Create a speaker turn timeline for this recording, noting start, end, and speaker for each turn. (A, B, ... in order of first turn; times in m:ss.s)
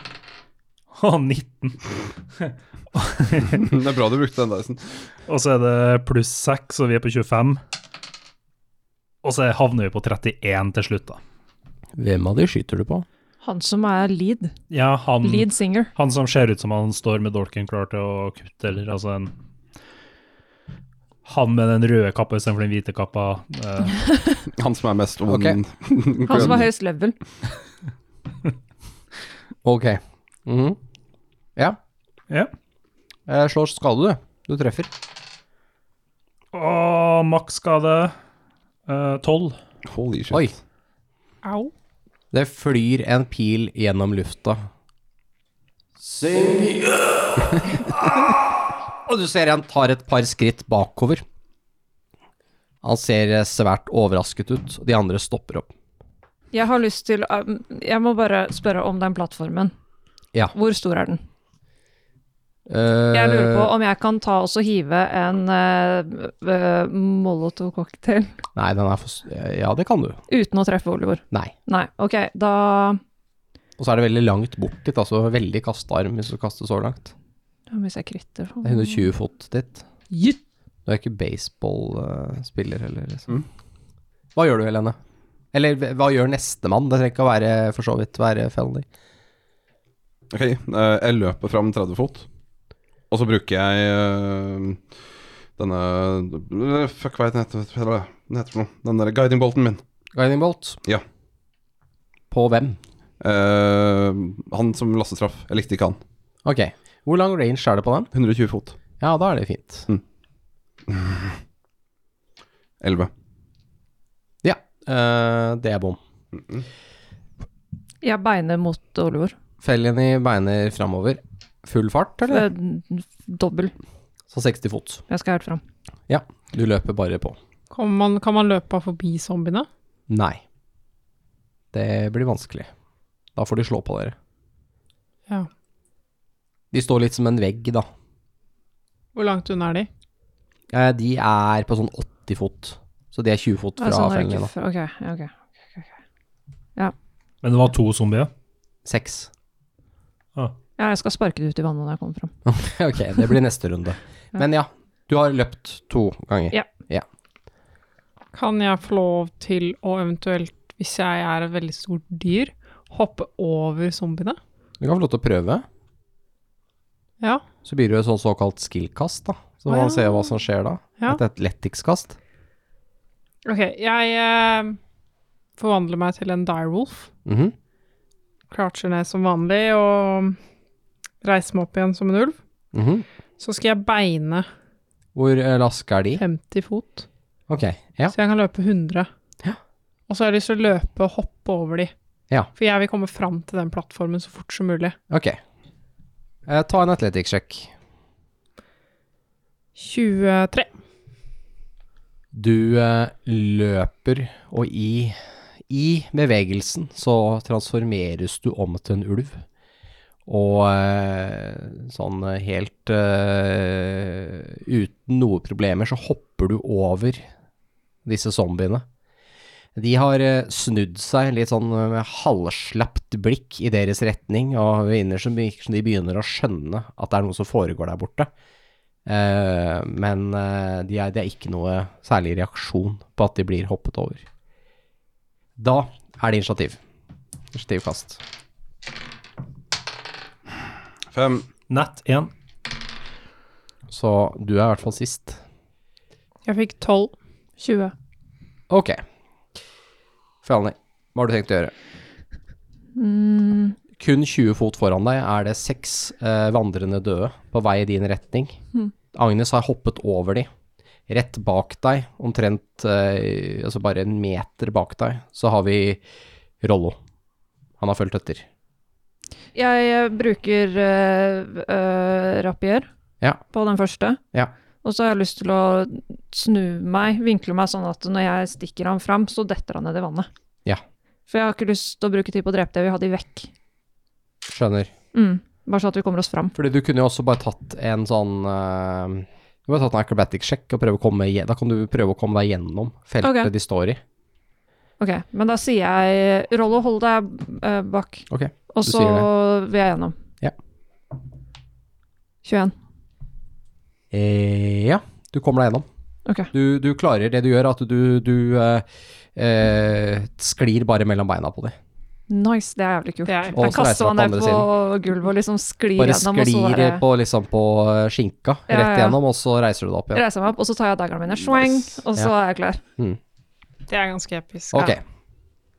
0:00.9-0:03.6 A
0:03.6-0:05.0 B
0:05.3-0:07.6 A
0:09.2-0:11.2 A
0:12.0-0:13.0 C
0:13.4-0:14.5 D
0:14.7-0:19.3 A
0:15.2-0:15.9 D
0:21.3-0:24.0 A
0:24.5-0:26.7 B
0:25.3-0:25.6 C
0:26.2-0:27.2 D
0:29.6-0:30.8 C
0:33.3-0:34.9 C
0:36.5-0:38.1 A
0:38.9-0:39.6 A
0:39.9-0:40.4 B
0:41.4-0:41.7 E
0:42.3-0:44.7 C
0:46.0-0:48.4 C
0:49.1-0:51.2 C
0:52.8-0:55.7 C
0:56.5-0:59.7 D
1:00.5-1:01.2 D
1:02.7-1:03.7 C
1:03.1-1:08.3 D
1:08.6-1:10.2 C
1:10.3-1:13.0 D
1:13.8-1:17.1 C
1:17.7-1:19.1 D
1:18.6-1:19.9 C
1:20.1-1:20.4 E
1:20.9-1:23.3 C
1:24.4-1:25.0 C
1:25.5-1:28.9 C
1:30.3-1:32.3 B
1:33.1-1:34.9 B
1:35.6-1:39.8 B
1:40.1-1:40.8 C
1:42.3-1:42.8 C
1:43.2-1:46.0 B
1:46.4-1:48.1 C
1:48.1-1:48.8 B
1:49.0-1:49.9 C
1:50.9-1:51.4 B
1:52.8-1:53.1 B
1:54.4-1:56.0 C
1:58.0-1:59.3 D
1:59.6-2:02.5 C
2:02.3-2:03.7 D
2:04.3-2:05.0 C
2:05.1-2:05.6 D
2:06.1-2:07.4 C
2:07.7-2:09.7 E
2:10.1-2:10.4 C
2:11.7-2:12.7 C
2:13.4-2:14.2 C
2:16.7-2:17.9 C
2:19.1-2:19.9 E
2:20.7-2:24.5 C
2:23.8-2:25.9 D
2:27.4-2:28.3 A
2:28.9-2:29.3 C
2:30.8-2:32.3 D
2:32.5-2:37.1 C
2:38.3-2:44.4 E
2:44.8-2:45.6 C
2:47.6-2:52.2 C
2:49.7-2:50.2 E
2:53.4-2:54.8 E
2:55.6-2:57.1 E
2:57.3-2:57.6 C
2:58.5-3:00.4 E
3:01.2-3:02.4 E
3:02.7-3:03.1 C
3:03.4-3:04.5 E
3:05.2-3:06.2 C
3:06.2-3:07.0 E
3:07.5-3:08.2 C
3:08.1-3:09.1 E
3:10.1-3:11.9 E
3:12.6-3:15.0 E
3:15.1-3:15.4 C
3:16.5-3:17.7 C
3:19.8-3:20.7 E
3:22.3-3:25.2 C
3:25.7-3:29.4 C
3:30.3-3:37.3 C
3:38.1-3:38.8 C
3:39.8-3:48.3 C
3:49.1-3:54.2 C
3:55.6-3:56.8 C
3:57.5-3:58.2 C
4:01.1-4:01.5 B
4:01.7-4:02.3 A
4:03.9-4:05.4 C
4:06.5-4:07.2 E
4:07.6-4:07.9 D
4:08.7-4:09.0 C
4:10.4-4:11.7 C
4:13.0-4:13.8 D
4:14.0-4:18.6 C
4:19.1-4:20.5 C
4:21.1-4:26.0 C
4:26.6-4:27.0 C
4:27.8-4:28.5 C
4:29.6-4:32.9 D
4:33.5-4:34.2 D
4:34.8-4:40.3 D
4:41.3-4:43.5 D
4:44.5-4:44.9 C
4:45.1-4:46.6 D
4:46.6-4:54.0 C
4:53.2-4:53.5 D
4:55.0-5:00.2 D
4:58.3-4:59.3 C
5:02.4-5:02.8 D
5:04.1-5:05.9 C
5:06.3-5:06.5 D
5:06.5-5:11.8 C
5:12.3-5:17.0 D
5:13.3-5:13.7 E
5:13.5-5:14.7 C
5:16.0-5:20.2 C
5:18.7-5:19.2 D
5:20.1-5:22.8 D
5:23.9-5:25.0 E
5:24.7-5:25.0 C